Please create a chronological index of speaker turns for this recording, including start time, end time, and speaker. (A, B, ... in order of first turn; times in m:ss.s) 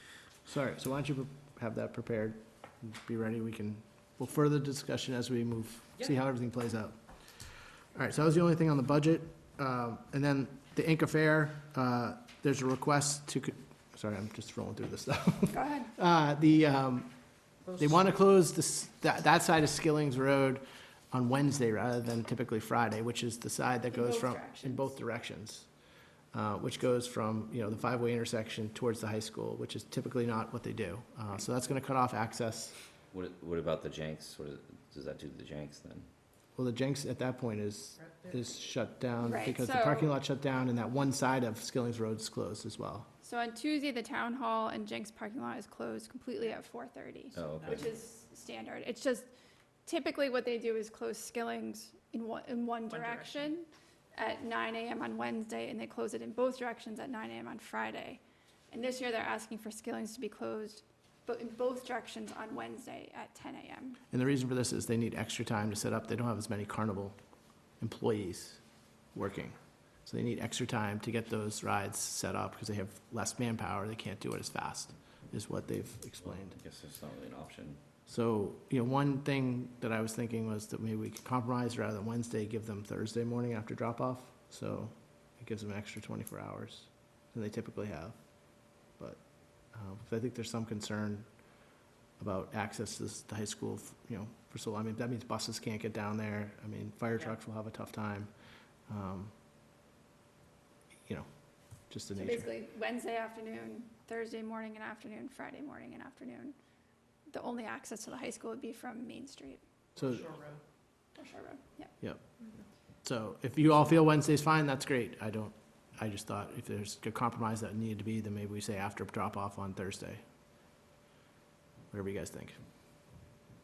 0:00.4-0:07.0 A
0:07.9-0:17.1 A
0:15.5-0:15.9 B
0:17.6-0:18.0 C
0:17.8-0:25.7 A
0:23.9-0:24.9 B
0:26.3-0:32.8 A
0:33.1-0:36.1 D
0:36.6-0:43.1 A
0:38.0-0:38.7 C
0:39.2-0:40.2 B
0:43.2-0:49.3 B
0:47.3-0:47.9 D
0:47.6-0:47.9 C
0:49.8-1:04.0 B
0:52.9-0:53.6 C
1:04.1-1:07.2 A
1:07.8-1:08.6 A
1:09.1-1:16.6 A
1:16.2-1:17.8 D
1:18.1-1:28.2 A
1:28.9-1:31.3 A
1:32.2-1:38.3 A
1:38.9-1:39.3 A
1:41.9-1:42.5 A
1:42.1-1:46.6 B
1:47.3-1:49.6 B
1:50.0-1:50.2 A
1:50.0-1:50.6 C
1:51.1-1:51.9 B
1:53.0-2:00.2 A
2:01.9-2:02.6 A